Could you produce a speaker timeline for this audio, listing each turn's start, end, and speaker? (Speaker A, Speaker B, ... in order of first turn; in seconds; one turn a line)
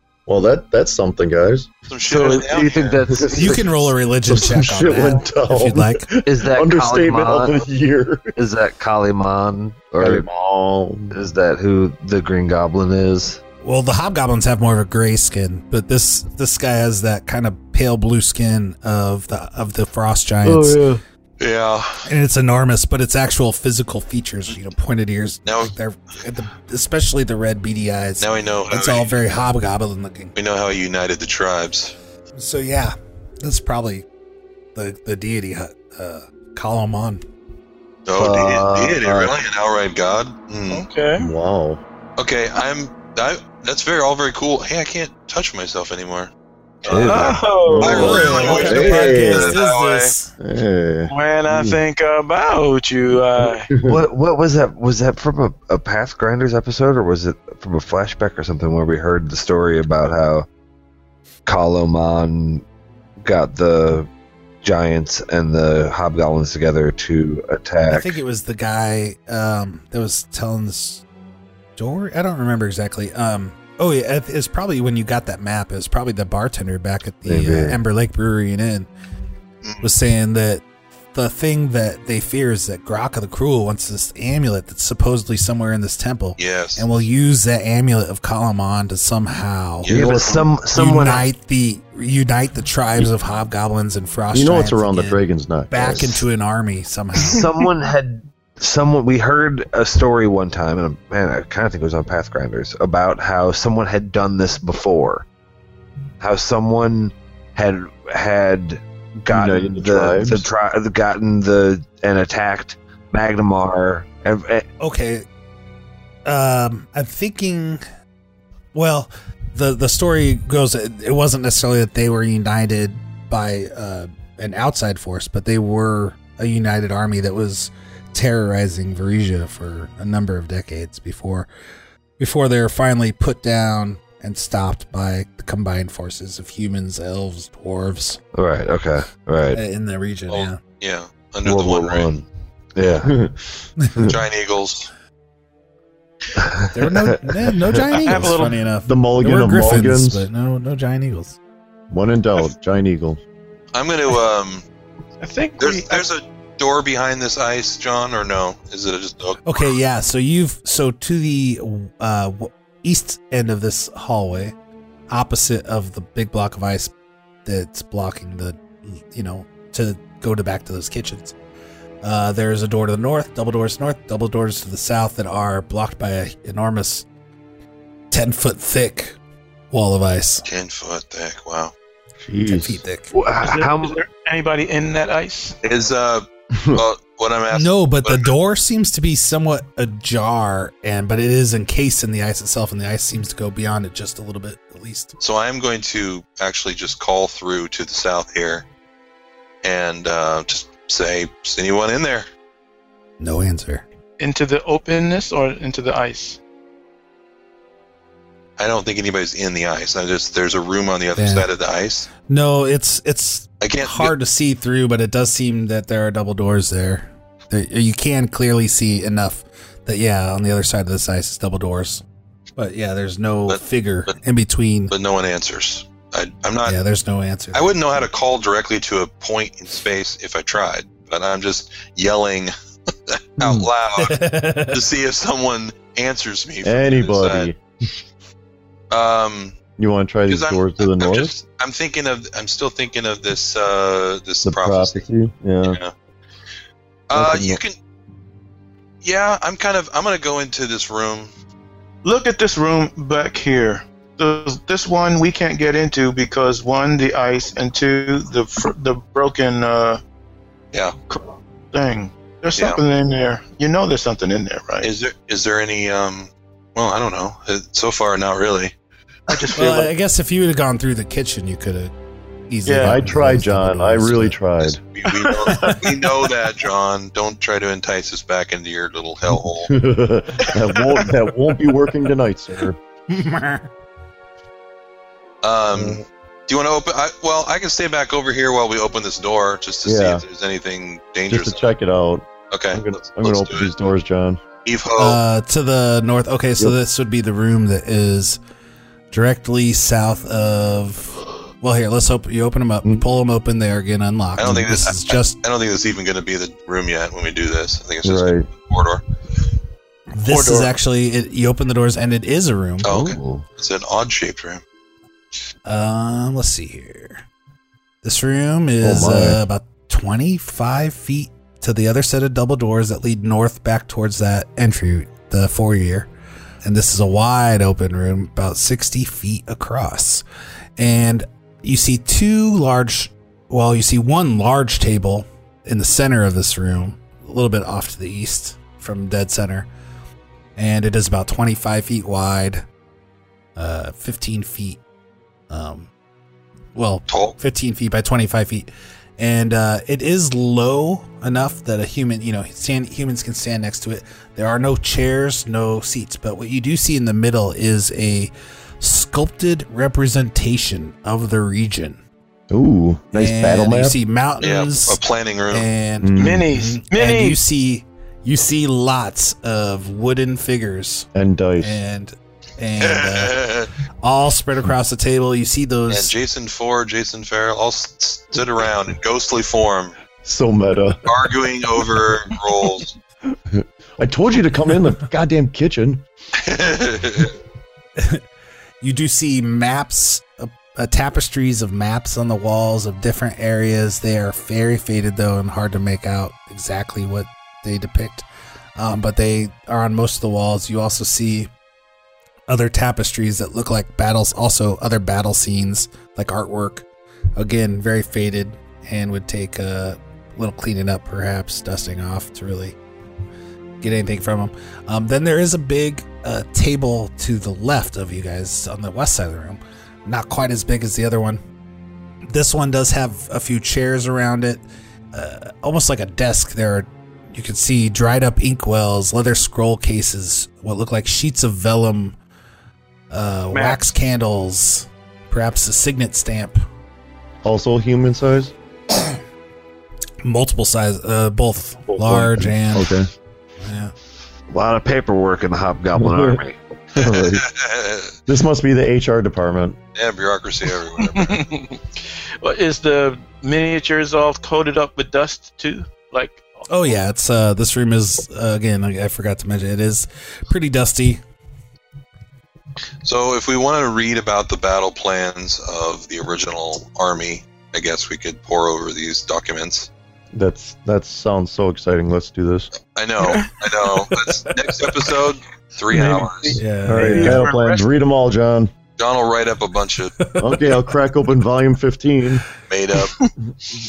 Speaker A: 0.3-1.7
Speaker B: 1.9-3.0
Speaker C: 2.1-3.9
Speaker A: 3.1-3.6
Speaker D: 3.3-6.1
Speaker A: 4.3-8.3
Speaker C: 6.3-7.6
Speaker C: 8.4-10.3
Speaker A: 10.0-11.2
Speaker C: 11.1-13.4
Speaker D: 13.6-20.8
Speaker C: 20.4-21.0
Speaker B: 21.4-22.1
Speaker D: 22.1-30.4
Speaker B: 25.5-25.7
Speaker B: 28.2-29.1
Speaker B: 30.4-31.9
Speaker D: 32.3-34.0
Speaker D: 34.8-37.2
Speaker B: 38.1-40.9
Speaker C: 38.1-39.3
Speaker E: 40.7-41.3
Speaker A: 41.2-41.8
Speaker B: 42.2-46.3
Speaker B: 46.8-50.1
Speaker C: 46.9-47.5
Speaker E: 46.9-49.1
Speaker A: 47.6-49.6
Speaker D: 47.9-50.3
Speaker A: 50.4-51.8
Speaker E: 51.1-53.7
Speaker A: 53.4-54.0
Speaker C: 53.8-60.5
Speaker C: 61.5-62.6
Speaker C: 63.2-64.1
Speaker C: 64.6-68.2
Speaker D: 67.9-71.0
Speaker D: 71.8-78.9
Speaker C: 77.2-77.8
Speaker B: 79.6-79.9
Speaker D: 79.8-89.9
Speaker B: 86.4-86.9
Speaker B: 89.8-90.5
Speaker C: 89.9-91.3
Speaker A: 90.0-90.4
Speaker D: 90.7-97.5
Speaker A: 94.3-96.3
Speaker C: 97.2-105.3
Speaker C: 106.2-114.7
Speaker A: 109.3-110.5
Speaker D: 114.8-115.2
Speaker D: 116.2-117.8
Speaker D: 118.7-131.5
Speaker D: 132.2-138.2
Speaker C: 138.3-139.6
Speaker D: 139.5-140.6
Speaker B: 140.3-142.1
Speaker C: 141.4-143.1
Speaker A: 143.0-144.2
Speaker B: 144.1-144.9
Speaker C: 146.3-147.5
Speaker D: 146.7-151.4
Speaker E: 147.9-148.6
Speaker A: 148.9-150.3
Speaker A: 151.9-153.2
Speaker B: 153.7-154.6
Speaker E: 155.2-156.1
Speaker B: 155.6-159.7
Speaker D: 159.4-164.5
Speaker D: 165.1-166.9
Speaker D: 167.4-171.3
Speaker D: 172.0-177.1
Speaker D: 178.1-179.2
Speaker D: 179.7-180.4
Speaker B: 180.4-181.7
Speaker A: 182.2-182.8
Speaker D: 182.5-183.1
Speaker C: 183.1-184.0
Speaker E: 183.4-185.6
Speaker B: 185.6-188.3
Speaker A: 186.6-186.8
Speaker D: 187.5-195.1
Speaker B: 195.2-198.7
Speaker B: 199.6-202.3
Speaker D: 203.2-203.9
Speaker E: 204.2-206.4
Speaker B: 208.6-212.1
Speaker D: 211.2-211.5
Speaker D: 212.3-222.0
Speaker B: 213.6-214.1
Speaker D: 222.6-224.9
Speaker B: 223.5-224.1
Speaker B: 224.9-226.8
Speaker D: 226.7-227.8
Speaker B: 227.5-232.5
Speaker B: 233.1-237.5
Speaker A: 233.4-233.7
Speaker D: 234.0-234.8
Speaker A: 236.6-237.6
Speaker B: 238.9-239.6
Speaker A: 239.8-241.4
Speaker B: 240.3-245.0
Speaker A: 244.4-245.8
Speaker B: 245.6-245.9
Speaker B: 247.1-247.8
Speaker A: 247.1-247.6
Speaker B: 249.0-251.3
Speaker E: 252.0-260.0
Speaker E: 261.1-264.9
Speaker B: 262.6-262.8
Speaker B: 264.8-268.7
Speaker E: 269.3-269.9
Speaker D: 269.6-271.9
Speaker D: 272.5-274.4
Speaker E: 272.7-273.0
Speaker A: 272.8-274.8
Speaker B: 274.6-279.7
Speaker E: 275.3-275.8
Speaker A: 279.4-282.8
Speaker D: 283.1-283.7
Speaker B: 285.4-291.6
Speaker A: 285.7-286.0
Speaker A: 289.9-290.2
Speaker A: 291.3-294.4
Speaker B: 292.5-293.7
Speaker B: 294.6-295.2
Speaker D: 295.0-298.4
Speaker D: 299.1-305.4
Speaker B: 304.4-309.0
Speaker A: 308.0-308.5
Speaker D: 310.1-312.9
Speaker E: 310.2-310.7
Speaker B: 312.8-314.6
Speaker C: 312.9-313.4
Speaker D: 315.7-317.2
Speaker D: 318.0-326.1
Speaker A: 318.8-319.4
Speaker C: 318.9-319.3
Speaker D: 326.6-330.2
Speaker D: 330.8-339.7
Speaker D: 340.6-342.6
Speaker D: 343.6-344.8
Speaker D: 345.5-345.9
Speaker D: 346.8-362.0
Speaker B: 347.1-347.4
Speaker A: 362.5-364.0
Speaker D: 363.1-371.1
Speaker B: 364.4-365.7
Speaker A: 366.0-366.5
Speaker E: 366.2-367.4
Speaker A: 371.1-371.8
Speaker D: 371.6-373.4
Speaker B: 372.8-373.7
Speaker D: 374.0-376.1
Speaker B: 375.9-379.9
Speaker A: 380.2-381.0
Speaker B: 381.1-383.0
Speaker A: 383.5-386.1
Speaker B: 386.4-387.3
Speaker D: 388.0-388.2
Speaker D: 388.8-398.2
Speaker D: 398.8-401.5
Speaker D: 402.5-412.8
Speaker D: 413.8-421.4
Speaker D: 422.3-432.2
Speaker D: 433.1-436.6
Speaker E: 433.5-433.9
Speaker A: 437.4-438.5
Speaker D: 440.2-443.0
Speaker A: 442.0-443.1
Speaker D: 443.6-443.9
Speaker C: 444.5-447.2
Speaker A: 445.9-446.4
Speaker A: 446.9-447.5
Speaker B: 447.3-448.1
Speaker A: 448.3-449.8
Speaker B: 449.9-451.5
Speaker E: 451.0-456.7
Speaker D: 456.7-461.2
Speaker B: 463.0-469.9
Speaker A: 470.3-472.7
Speaker B: 472.9-476.6
Speaker E: 473.2-473.5
Speaker E: 475.9-477.9
Speaker D: 476.6-477.5
Speaker A: 476.9-478.7
Speaker B: 479.0-480.1
Speaker A: 480.4-482.4
Speaker B: 482.7-483.2